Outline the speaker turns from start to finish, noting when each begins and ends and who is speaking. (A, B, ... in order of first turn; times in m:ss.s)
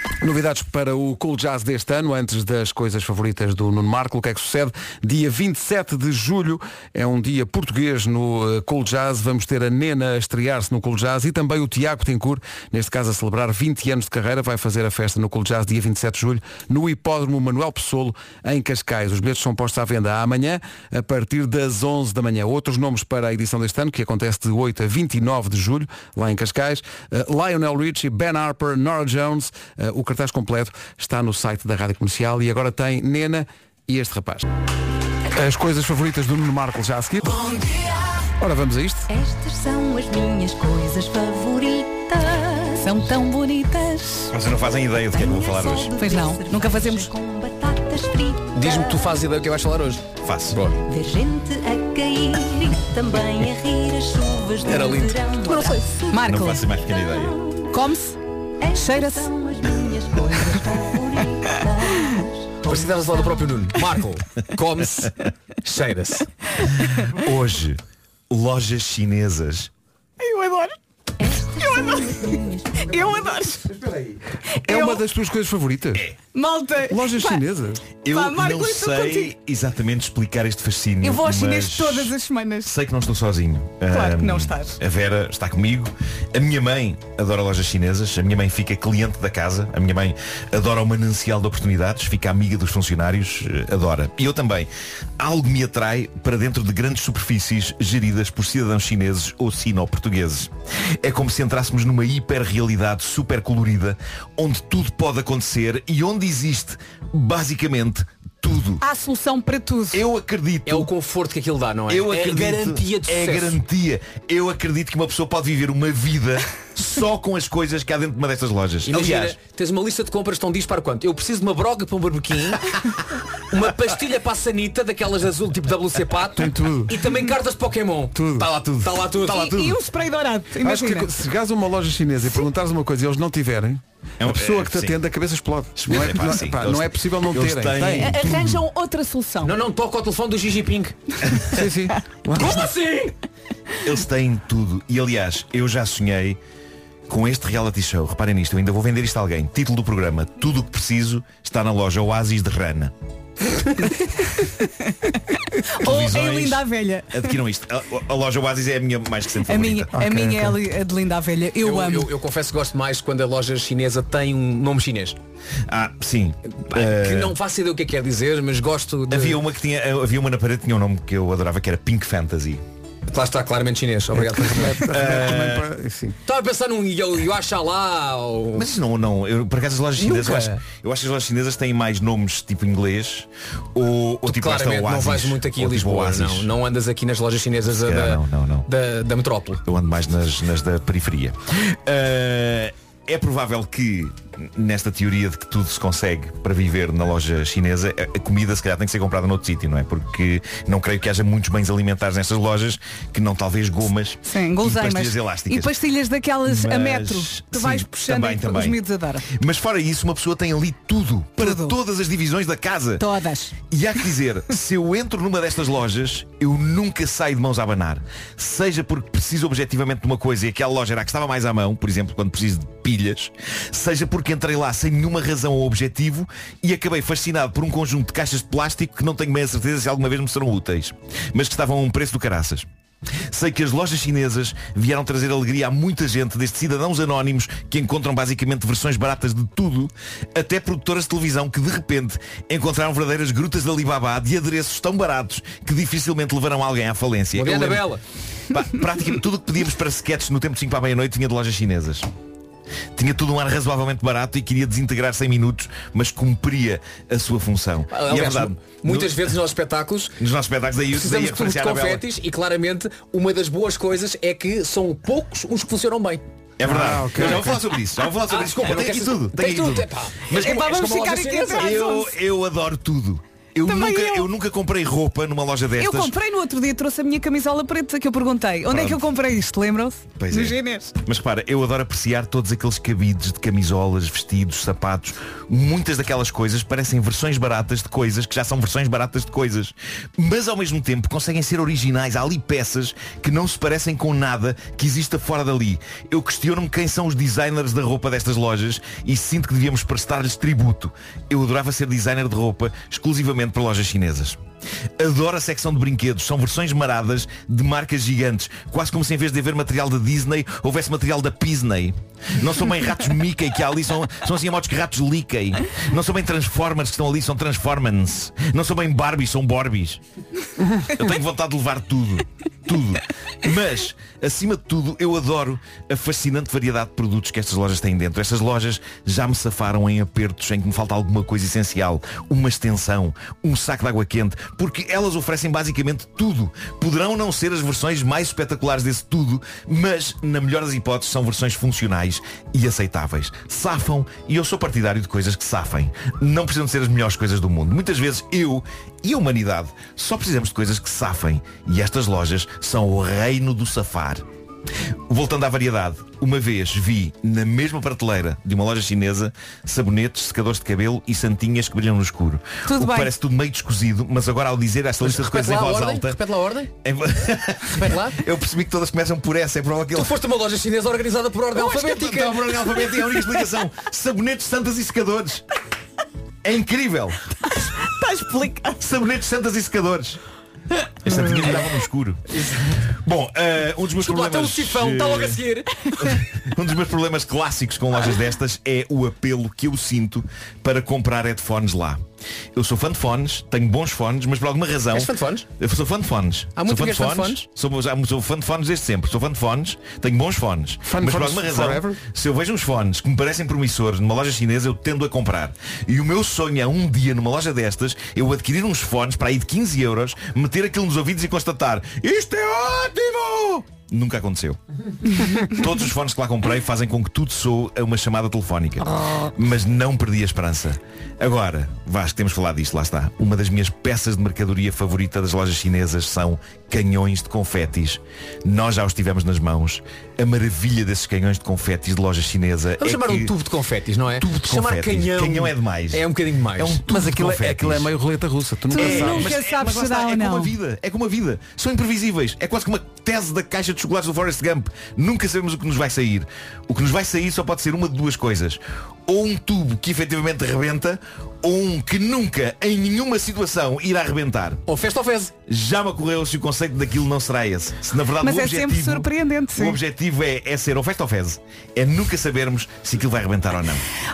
0:00.2-0:34.5 A
0:35.3-0:37.4 A
0:38.4-0:39.1 A
0:39.1-0:42.9 B
0:42.8-0:44.3 C
0:44.3-0:46.0 D
0:45.1-0:49.0 B
0:46.0-0:47.1 C
0:48.5-0:50.8 E
0:50.2-0:50.6 D
0:50.9-0:56.1 B
0:54.6-0:55.3 E
0:55.4-0:56.7 C
0:56.2-0:57.4 D
0:56.9-0:57.7 B
0:57.7-0:59.3 C
0:58.6-1:02.1 B
1:02.6-1:06.3 E
1:07.1-1:07.8 D
1:08.3-1:09.7 D
1:10.2-1:13.6 C
1:11.3-1:12.7 B
1:13.6-1:16.1 A
1:14.7-1:15.0 C
1:16.3-1:17.4 C
1:16.9-1:17.9 A
1:18.0-1:22.1 D
1:18.1-1:19.3 C
1:21.0-1:22.8 C
1:22.6-1:40.5 D
1:23.9-1:24.8 C
1:41.0-1:48.8 D
1:48.8-1:50.0 C
1:49.9-1:50.9 D
1:50.6-1:53.6 E
1:51.9-1:59.4 D
1:58.8-2:09.7 E
2:06.4-2:07.0 A
2:08.1-2:08.5 A
2:08.4-2:09.0 D
2:09.2-2:11.1 C
2:10.6-2:18.3 A
2:14.2-2:15.0 D
2:15.8-2:18.6 D
2:18.0-2:19.6 C
2:19.4-2:21.0 E
2:21.5-2:22.6 A
2:22.4-2:23.1 E
2:23.8-2:26.4 D
2:27.1-2:32.9 D
2:34.0-2:34.5 C
2:35.8-2:37.4 C
2:35.8-2:39.9 D
2:39.5-2:42.1 C
2:39.9-2:40.6 A
2:41.6-2:45.2 E
2:45.7-2:47.4 D
2:46.7-2:49.4 E
2:49.1-2:52.6 D
2:53.1-2:54.9 E
2:54.1-2:56.2 A
2:54.9-2:55.7 D
2:56.2-2:58.7 E
2:58.6-3:06.5 D
3:00.0-3:00.6 E
3:04.2-3:09.6 E
3:07.8-3:08.7 D
3:09.7-3:25.7 D
3:24.2-3:29.3 C
3:26.4-3:33.1 D
3:31.4-3:31.8 C
3:33.0-3:33.6 C
3:33.6-3:52.7 D
3:53.3-4:07.9 D
4:07.3-4:08.0 E
4:08.5-4:12.1 D
4:13.0-4:19.2 D
4:17.9-4:20.2 E
4:20.2-4:22.0 D
4:20.9-4:26.2 E
4:26.6-4:30.6 D
4:26.6-4:27.6 A
4:27.2-4:27.5 E
4:28.2-4:31.8 E
4:30.3-4:32.2 C
4:31.6-4:36.1 D
4:33.6-4:34.3 C
4:35.8-4:40.9 C
4:38.7-4:39.0 D
4:40.2-5:04.4 D
5:05.0-5:20.0 D
5:20.8-5:54.2 D
5:55.1-6:06.2 D
6:02.7-6:03.1 C
6:05.0-6:06.7 E
6:06.8-6:10.2 D
6:07.7-6:08.2 E
6:09.9-6:12.9 E
6:11.6-6:15.4 D
6:16.4-6:17.2 D
6:17.6-6:18.8 C
6:18.8-6:20.2 D
6:21.0-6:22.2 D
6:22.3-6:22.8 E
6:23.0-6:25.4 D
6:23.9-6:25.9 E
6:26.0-6:32.0 D
6:32.6-6:54.6 D
6:34.9-6:35.5 E
6:36.6-6:37.5 E
6:40.8-6:42.0 A
6:55.2-7:13.3 D
7:12.8-7:16.9 E
7:14.2-7:16.0 D
7:16.6-7:17.8 D
7:16.9-7:19.3 A
7:17.5-7:17.8 E
7:18.7-7:20.5 C
7:18.8-7:34.6 D
7:34.7-7:35.3 E
7:35.5-7:43.8 D
7:38.2-7:39.8 C